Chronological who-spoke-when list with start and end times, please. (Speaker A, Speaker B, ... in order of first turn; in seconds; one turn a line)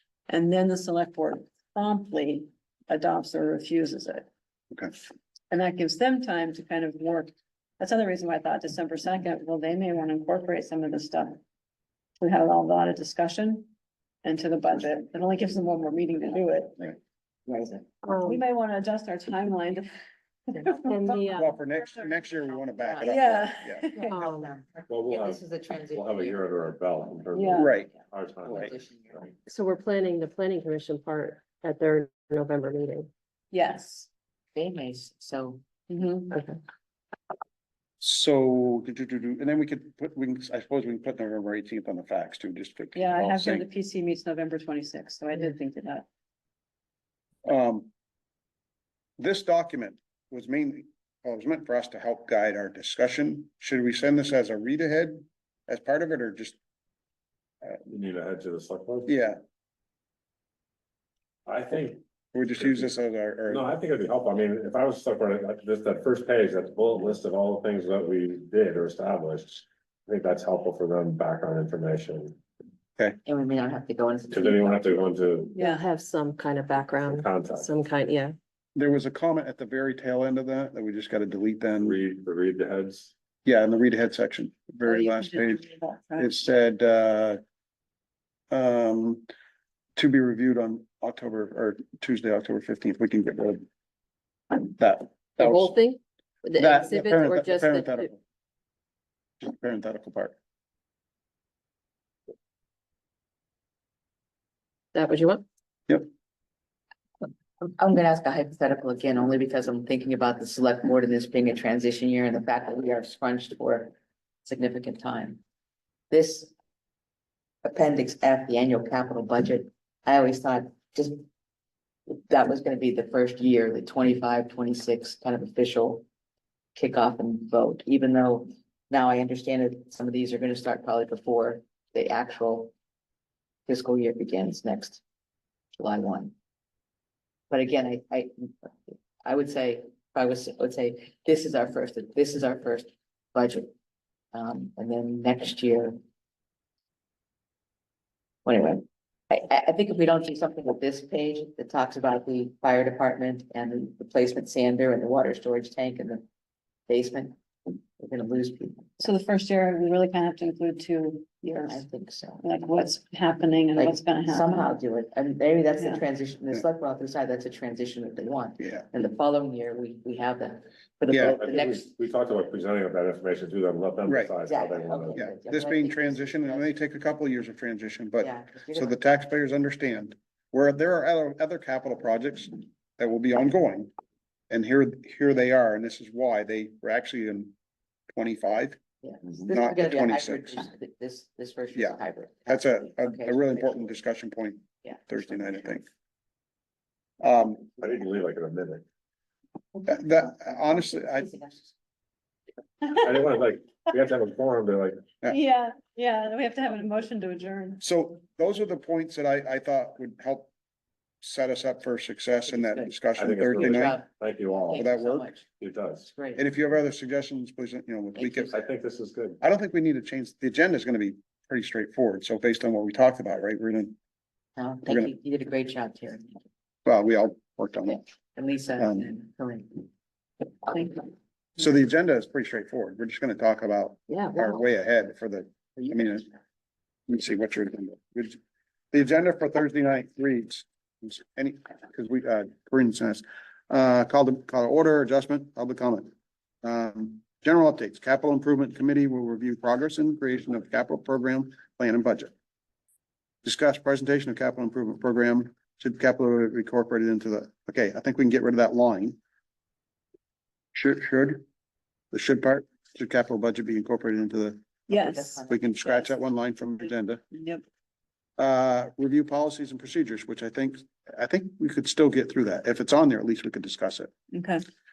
Speaker A: 0.3-4.3
Speaker A: 5.5-11.4
Speaker A: 12.2-13.7
Speaker A: 14.2-17.0
Speaker A: 17.5-19.9
Speaker B: 18.0-18.4
Speaker A: 20.5-21.2
Speaker B: 20.9-21.6
Speaker C: 21.3-23.9
Speaker D: 22.7-26.4
Speaker A: 23.0-24.2
Speaker B: 24.1-24.5
Speaker E: 24.9-29.3
Speaker A: 27.3-27.7
Speaker C: 27.6-27.9
Speaker D: 27.9-29.3
Speaker B: 29.5-33.1
Speaker A: 33.5-34.1
Speaker D: 34.5-35.6
Speaker A: 35.9-36.4
Speaker B: 36.3-36.6
Speaker C: 38.0-43.7
Speaker A: 43.0-46.1
Speaker C: 47.5-47.9
Speaker C: 49.2-56.6
Speaker E: 57.9-59.1
Speaker C: 59.1-59.4
Speaker E: 61.5-62.0
Speaker C: 62.3-63.7
Speaker E: 62.5-62.9
Speaker E: 63.5-72.4
Speaker D: 73.2-75.1
Speaker E: 74.3-75.5
Speaker A: 75.6-75.8
Speaker B: 75.6-78.4
Speaker E: 77.0-77.7
Speaker C: 78.8-82.0
Speaker E: 81.8-83.1
Speaker C: 83.5-85.6
Speaker A: 84.8-86.3
Speaker C: 86.2-87.4
Speaker C: 88.5-89.3
Speaker C: 90.0-93.6
Speaker C: 94.7-95.8
Speaker B: 95.4-98.1
Speaker C: 96.6-98.2
Speaker C: 99.4-100.3
Speaker B: 104.9-105.4
Speaker D: 107.6-113.9
Speaker D: 114.5-115.4
Speaker D: 116.1-116.5
Speaker D: 117.6-121.2
Speaker D: 122.1-126.0
Speaker D: 126.8-132.7
Speaker D: 133.7-135.0
Speaker D: 135.8-136.3
Speaker D: 137.5-138.7
Speaker D: 139.2-143.7
Speaker D: 144.3-146.0
Speaker D: 148.4-156.2
Speaker D: 156.9-159.1
Speaker A: 159.0-161.9
Speaker D: 161.6-162.4
Speaker A: 162.4-164.7
Speaker D: 163.8-171.9
Speaker C: 168.6-168.9
Speaker C: 171.1-171.4
Speaker E: 171.2-175.2
Speaker C: 174.1-174.3
Speaker D: 174.4-176.7
Speaker C: 175.1-183.9
Speaker D: 178.2-179.0
Speaker C: 184.5-187.5
Speaker C: 188.1-188.8
Speaker D: 189.0-194.0
Speaker C: 189.4-190.6
Speaker C: 191.7-195.9
Speaker D: 194.8-195.1
Speaker C: 197.2-197.7
Speaker E: 197.8-198.8
Speaker C: 199.9-201.3
Speaker D: 201.2-201.7
Speaker E: 202.9-205.0
Speaker A: 205.3-207.8
Speaker C: 207.8-210.5
Speaker C: 211.2-214.0
Speaker D: 212.4-212.9
Speaker E: 213.2-214.8
Speaker D: 213.6-215.5
Speaker C: 214.7-215.3
Speaker E: 215.6-216.1
Speaker D: 216.0-216.5
Speaker C: 216.4-218.6
Speaker D: 218.2-218.6
Speaker E: 218.5-219.4
Speaker C: 219.4-223.9
Speaker D: 224.6-226.4
Speaker C: 224.8-225.1
Speaker C: 226.9-228.0
Speaker D: 227.9-229.9
Speaker C: 228.8-229.1
Speaker D: 230.7-231.1
Speaker C: 231.6-236.3
Speaker B: 234.1-234.4
Speaker D: 235.8-236.2
Speaker C: 237.1-238.4
Speaker C: 238.9-246.1
Speaker C: 246.6-252.3
Speaker C: 253.4-259.2
Speaker C: 260.7-261.4
Speaker C: 262.1-264.7
Speaker A: 264.9-265.4
Speaker D: 264.9-266.2
Speaker C: 265.5-267.2
Speaker A: 267.3-267.6
Speaker C: 268.4-274.1
Speaker A: 274.3-274.6